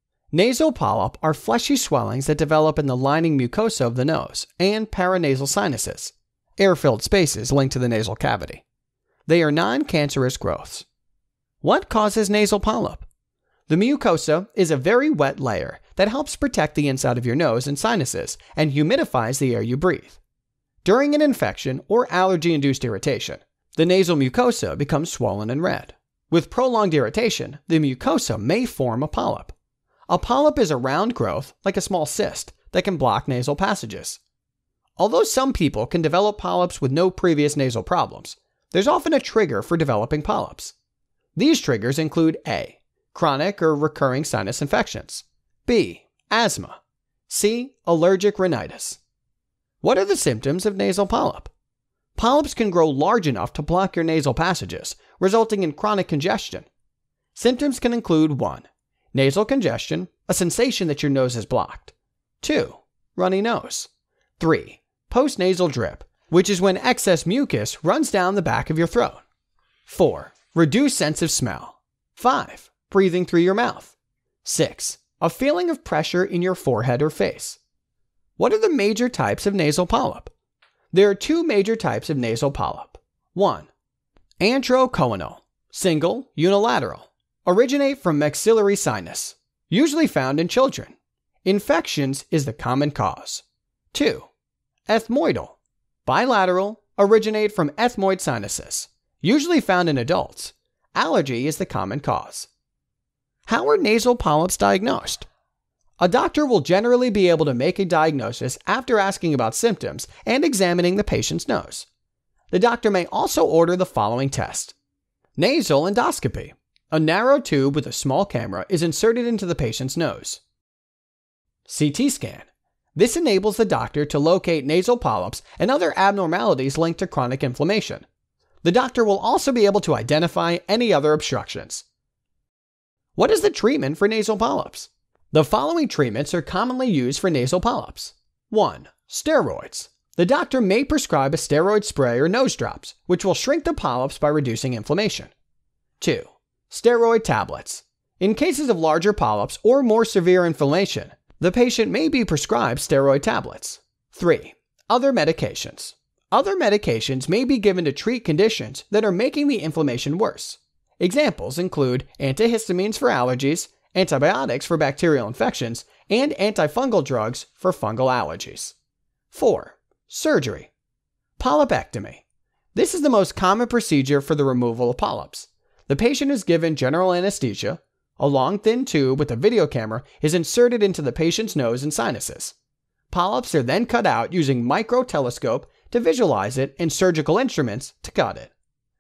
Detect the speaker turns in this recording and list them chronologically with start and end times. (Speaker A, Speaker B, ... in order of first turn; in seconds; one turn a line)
Speaker A: 0.3-8.6
Speaker A: 9.2-10.9
Speaker A: 11.6-13.1
Speaker A: 13.7-20.2
Speaker A: 20.8-29.5
Speaker A: 30.1-34.2
Speaker A: 35.0-40.7
Speaker A: 41.4-49.0
Speaker A: 49.8-51.5
Speaker A: 52.1-56.7
Speaker A: 57.3-69.2
Speaker A: 69.8-77.6
Speaker A: 78.4-80.3
Speaker A: 80.9-83.7
Speaker A: 84.4-94.3
Speaker A: 94.9-102.5
Speaker A: 103.5-105.3
Speaker A: 106.0-111.9
Speaker A: 112.5-114.7
Speaker A: 115.4-120.4
Speaker A: 121.7-128.1
Speaker A: 128.6-131.8
Speaker A: 133.2-145.3
Speaker A: 146.0-168.7
Speaker A: 169.3-170.7
Speaker A: 171.4-182.5
Speaker A: 183.1-188.5